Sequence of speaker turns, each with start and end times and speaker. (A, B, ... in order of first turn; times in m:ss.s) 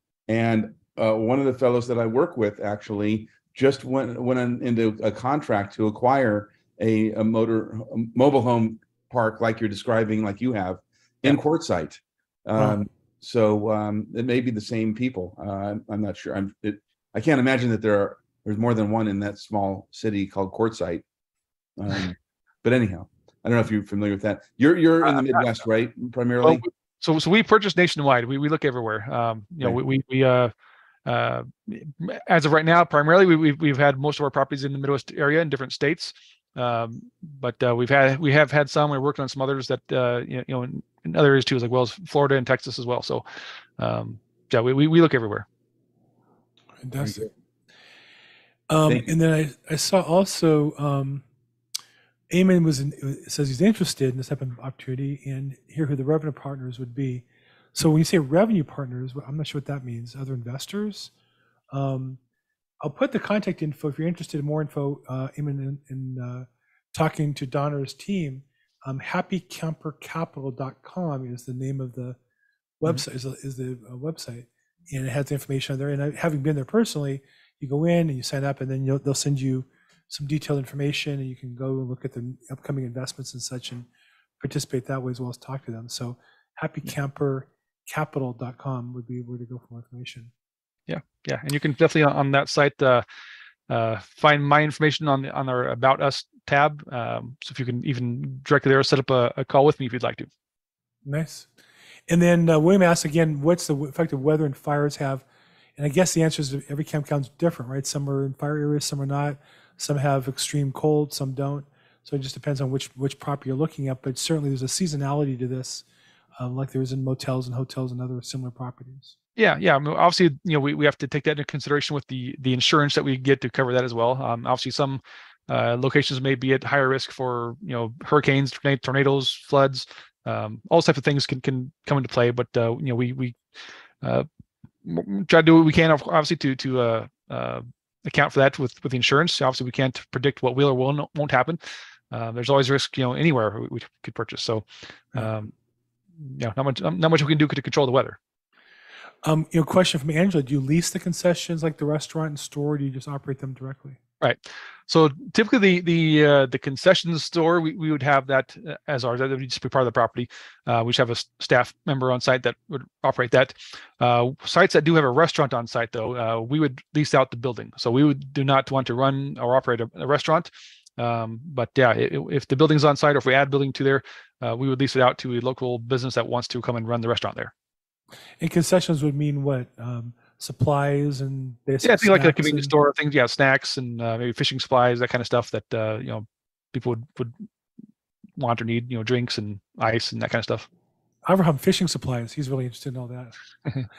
0:00.3-0:21.0 A
0:21.8-0:26.6 A
0:25.0-0:25.5 B
0:26.4-0:30.5 B
0:31.1-0:43.2 B
0:43.8-0:45.5 B
0:46.8-0:47.3 C
0:48.7-0:51.2 C
0:52.3-1:01.1 C
1:01.7-1:02.2 C
1:02.8-1:12.2 C
1:12.8-1:23.9 C
1:24.4-1:30.3 C
1:30.9-1:33.0 B
1:33.7-1:40.3 B
1:41.0-1:41.5 C
1:42.1-1:45.2 C
1:45.8-1:55.8 C
1:56.4-1:59.1 C
1:59.4-2:13.4 B
2:14.0-2:14.3 B
2:14.8-2:21.6 B
2:22.1-2:25.5 B
2:26.2-2:28.2 B
2:29.2-2:34.0 C
2:34.2-2:57.5 B
2:58.4-3:02.7 C
3:01.8-3:07.4 B
3:08.4-3:10.7 B
3:11.3-3:13.4 C